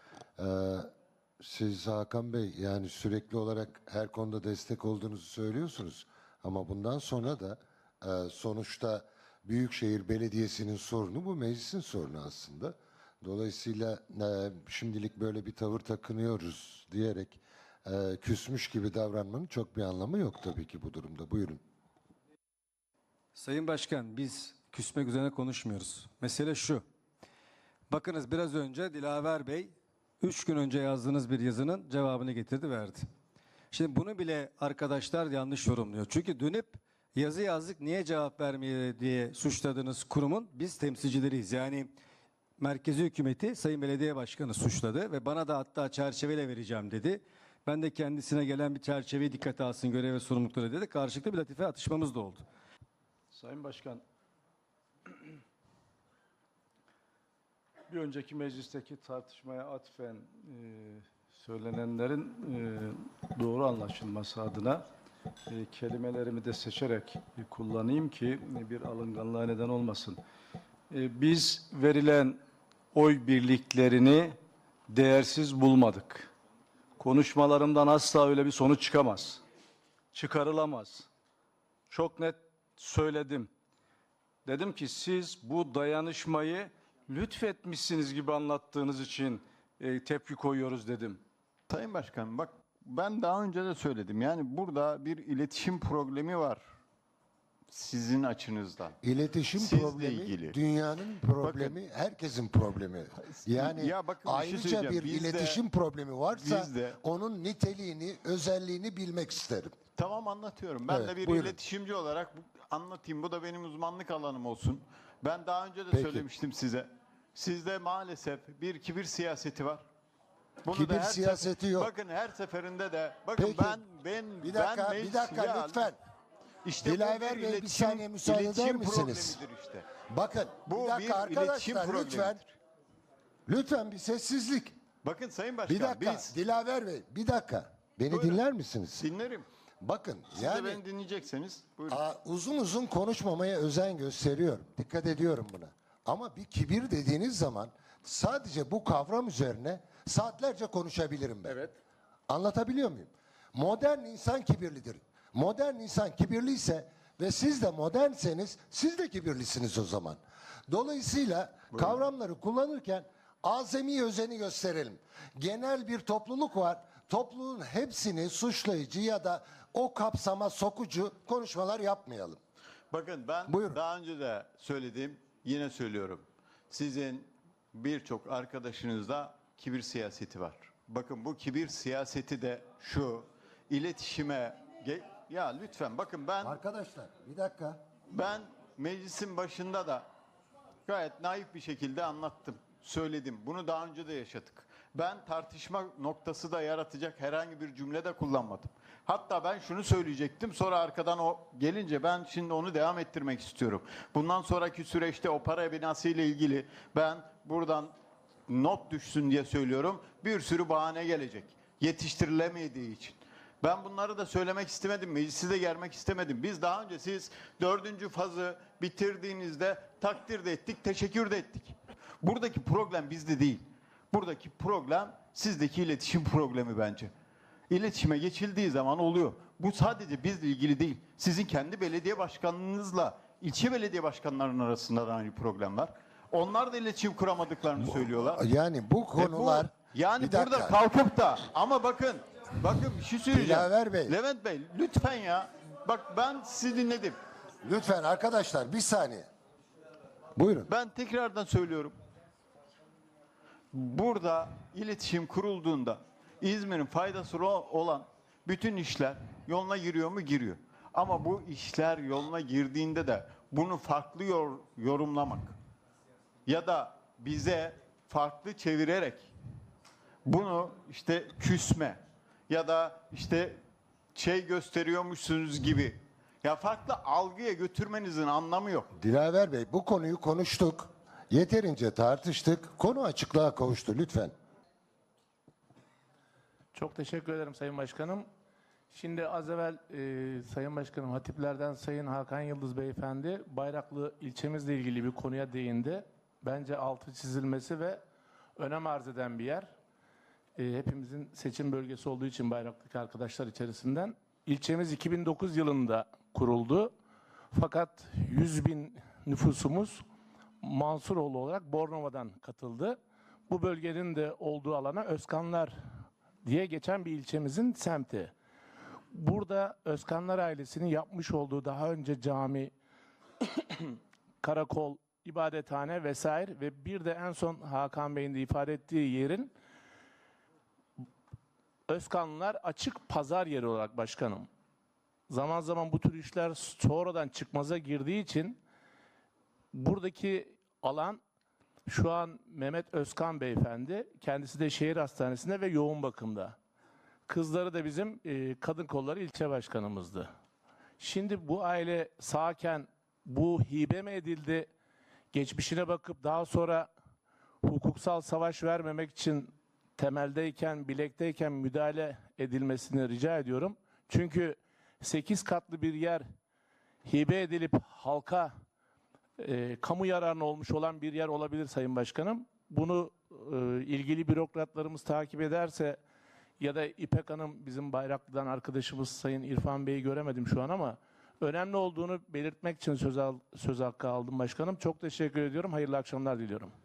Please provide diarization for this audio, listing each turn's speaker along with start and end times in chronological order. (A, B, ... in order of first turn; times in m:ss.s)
0:00.4-0:21.6 A
0:23.3-0:26.8 B
0:27.9-0:33.1 B
0:33.7-0:41.9 B
0:42.6-0:52.4 B
0:53.3-0:54.0 C
0:57.9-1:04.9 C
1:05.5-1:10.2 C
1:10.9-1:12.4 C
1:12.9-1:16.3 C
1:17.0-1:19.4 C
1:20.1-1:21.1 C
1:21.9-1:23.5 C
1:24.4-1:31.2 C
1:31.7-1:36.6 D
1:37.7-1:39.0 D
1:39.0-1:49.8 A
1:39.6-1:40.6 D
1:41.4-1:41.8 D
1:43.2-1:45.6 D
1:46.3-1:47.0 D
1:50.0-1:59.8 D
1:50.9-1:51.6 A
1:55.9-1:56.2 A
2:00.6-2:05.9 D
2:00.7-2:01.9 A
2:03.4-2:03.8 A
2:04.4-2:06.0 A
2:06.6-2:09.9 D
2:06.8-2:09.4 A
2:10.0-2:12.4 A
2:10.6-2:12.5 D
2:13.5-2:14.8 A
2:15.0-2:16.3 D
2:15.7-2:19.0 A
2:18.1-2:18.4 D
2:19.0-2:19.5 D
2:19.8-2:20.8 A
2:20.3-2:22.0 D
2:21.9-2:31.6 A
2:31.5-2:31.7 D
2:32.3-2:52.4 A
2:52.9-3:06.6 D
2:53.5-2:53.8 A
3:06.4-3:07.8 A
3:08.1-3:10.0 D
3:10.9-3:27.9 D
3:28.5-3:47.1 D
3:47.7-3:58.4 D
3:57.8-4:00.8 A
3:59.2-4:07.2 D
4:03.3-4:04.1 A
4:07.6-4:09.3 A
4:10.3-4:10.7 A
4:10.7-4:11.9 D
4:13.7-4:25.6 D
4:26.4-4:29.3 D
4:30.2-4:33.6 D
4:34.1-4:38.9 D
4:38.9-4:44.3 A
4:46.7-4:48.2 E
4:48.9-4:58.0 E
4:58.6-4:59.7 E
5:00.6-5:06.9 E
5:07.5-5:10.0 E
5:10.6-5:13.0 E
5:13.5-5:15.8 E
5:16.4-5:18.3 E
5:19.1-5:22.7 E
5:23.4-5:29.5 E
5:31.9-5:34.5 E
5:35.3-5:38.6 E
5:39.7-5:41.2 E
5:41.8-5:46.6 E
5:47.3-5:50.3 E
5:51.0-5:54.7 E
5:55.3-5:56.9 E
5:57.6-6:06.2 E
6:07.0-6:08.5 E
6:09.4-6:16.0 E
6:16.6-6:26.7 E